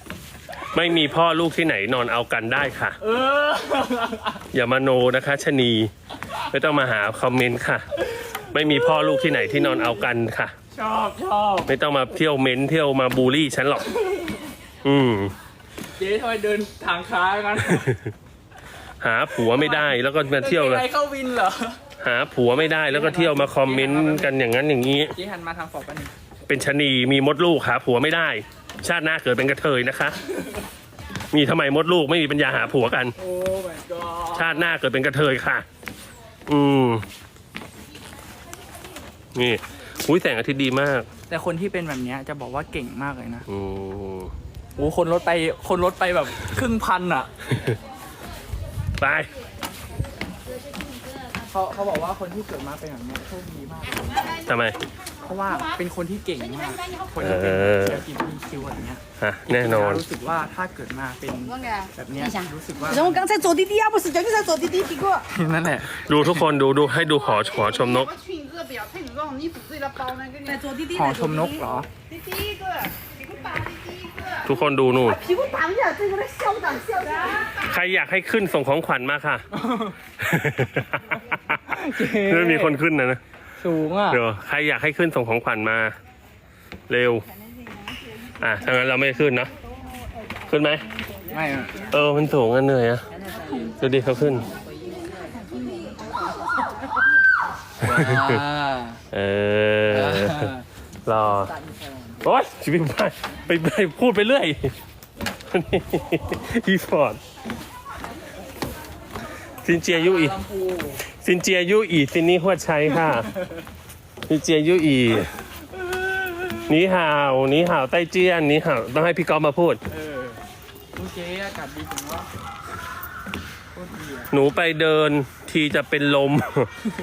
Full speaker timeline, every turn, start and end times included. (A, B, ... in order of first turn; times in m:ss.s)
0:00.7-0:03.0 A
0:03.0-0:04.4 B
0:04.5-0:05.9 A
0:06.5-0:07.9 A
0:08.5-0:10.5 A
0:10.7-0:11.7 B
0:11.7-0:13.9 A
0:14.0-0:14.4 B
0:14.8-0:15.3 A
0:16.0-0:17.9 B
0:17.7-0:18.1 A
0:19.0-0:20.9 A
0:19.4-0:21.8 B
0:22.0-0:25.2 A
0:22.9-0:24.3 B
0:25.1-0:26.1 B
0:26.5-0:30.2 A
0:31.3-0:33.1 A
0:33.2-0:34.7 B
0:34.3-0:35.6 A
0:36.5-0:37.0 A
0:39.3-0:41.1 A
0:41.3-0:43.4 B
0:43.5-0:44.3 A
0:44.8-0:47.3 B
0:49.0-0:49.3 A
0:51.5-0:54.4 B
0:54.4-0:54.8 A
0:55.2-1:03.3 B
0:57.2-0:58.0 A
0:59.2-1:00.0 A
1:03.0-1:05.2 C
1:05.3-1:06.1 B
1:06.0-1:08.2 A
1:08.2-1:11.4 C
1:10.8-1:11.9 B
1:12.2-1:12.9 C
1:13.4-1:14.2 C
1:14.3-1:15.2 A
1:15.2-1:17.4 C
1:17.4-1:19.5 A
1:19.5-1:20.0 B
1:20.2-1:23.2 A
1:21.7-1:22.8 B
1:23.6-1:24.2 B
1:24.1-1:26.0 A
1:26.9-1:27.2 A
1:28.4-1:29.5 A
1:30.5-1:30.8 A
1:31.3-1:31.9 B
1:31.9-1:33.0 A
1:33.6-1:34.5 A
1:35.0-1:35.9 C
1:37.8-1:39.0 B
1:37.8-1:38.4 A
1:39.1-1:40.5 A
1:39.9-1:40.6 B
1:41.0-1:41.5 A
1:41.2-1:42.2 B
1:42.2-1:44.7 A
1:45.5-1:47.2 A
1:49.6-1:50.4 A
1:49.9-1:51.0 B
1:51.0-1:53.3 A
1:53.0-1:53.6 B
1:54.3-1:55.3 A
1:56.7-1:59.8 A
1:59.9-2:00.4 B
2:00.9-2:02.3 B
2:03.7-2:04.3 B
2:04.3-2:06.7 A